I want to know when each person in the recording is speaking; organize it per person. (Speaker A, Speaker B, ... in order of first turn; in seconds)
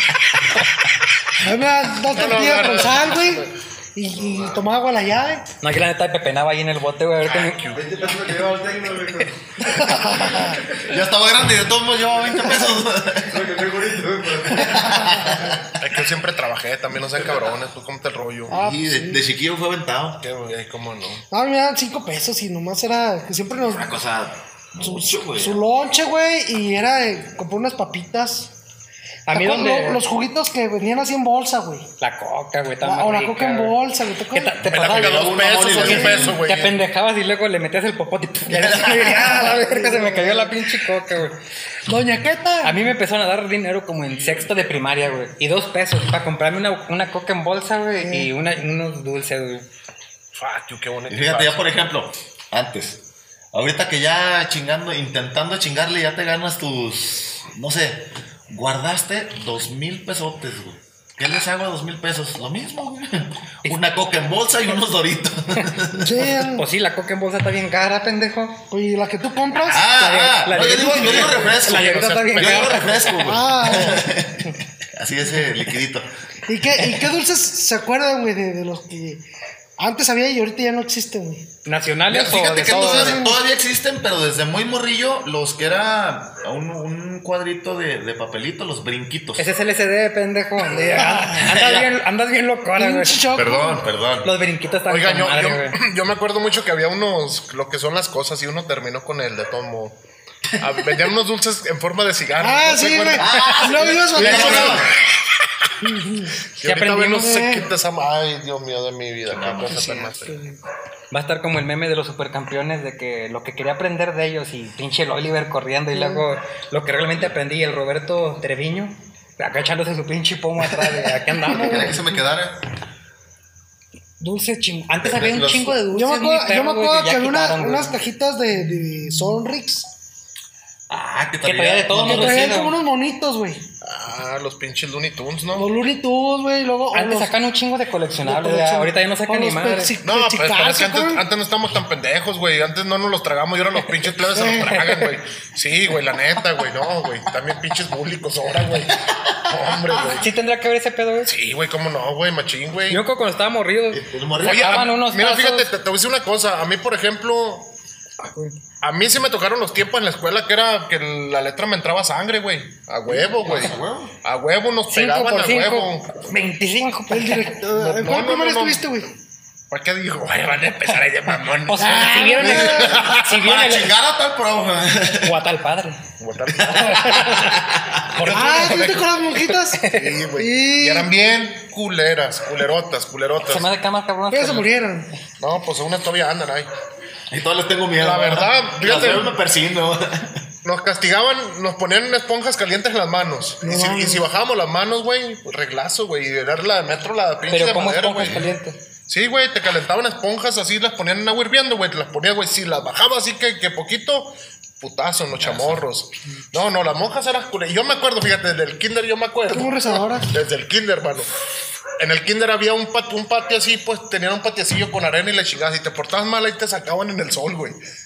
Speaker A: 1.4-5.5, 9.6-10.6, 18.5-19.2, 21.3-23.9, 24.8-28.5, 29.3-31.9, 32.8-34.7, 35.8-36.2, 39.2-40.6, 41.9-42.8, 48.0-48.3, 66.0-66.6, 68.7-70.0, 73.2-74.1, 76.5-79.2, 79.8-81.5, 82.7-83.4, 90.8-91.5, 92.8-93.8, 102.4-104.9, 105.8-106.4, 107.2-107.6, 109.6-110.6, 115.9-116.2, 121.5-122.0, 125.9-129.9, 131.9-133.6, 135.5-137.3, 138.2-141.2, 144.3-144.7, 167.1-169.1, 171.8-173.0, 178.3-181.1, 184.3-185.1, 193.6-194.2, 209.5-210.3
Speaker B: 2.1-3.5, 7.2-8.1, 15.8-18.6, 20.2-21.2, 34.7-36.8, 50.4-51.6, 71.0-73.1, 93.4-93.8, 94.9-100.0, 100.6-104.9, 106.6-110.4, 133.8-135.7, 140.0-150.3, 151.2-153.0, 154.4-157.7, 158.8-166.2, 167.7-169.0, 169.7-173.5, 176.2-177.4, 178.1-179.2, 179.9-183.7, 185.4-186.7, 188.0-189.4, 190.6-198.5, 199.1-211.3, 212.0-217.8
Speaker C: 5.6-7.6, 29.3-30.0, 32.0-33.8, 34.3-41.4, 42.6-49.6, 63.6-64.0, 65.6-68.6, 69.9-73.2, 81.6-83.2, 89.4-93.2, 94.2-95.8, 106.6-107.4, 111.1-121.9, 124.2-128.0, 131.4-132.7, 136.9-139.9, 144.7-145.1, 150.2-151.3, 152.9-155.7, 158.2-158.5, 164.9-167.5, 171.7-173.9, 175.2-176.0, 176.7-177.6, 178.1-178.9, 179.5-180.1, 183.4-184.7, 197.5-198.8
Speaker D: 7.7-10.8, 13.2-15.4
Speaker E: 10.9-13.5, 14.5-15.8, 18.5-20.2, 23.6-25.6, 34.7-36.4, 38.5-39.4, 51.1-66.3, 69.6-76.1, 82.1-89.5, 91.3-91.9, 93.4-94.3, 103.2-104.9, 109.3-109.9, 121.4-122.6, 125.0-125.8, 130.9-132.7, 149.0-150.1, 153.9-154.9, 163.1-164.1, 173.3-175.4, 176.6-178.2, 187.3-190.4, 205.4-205.8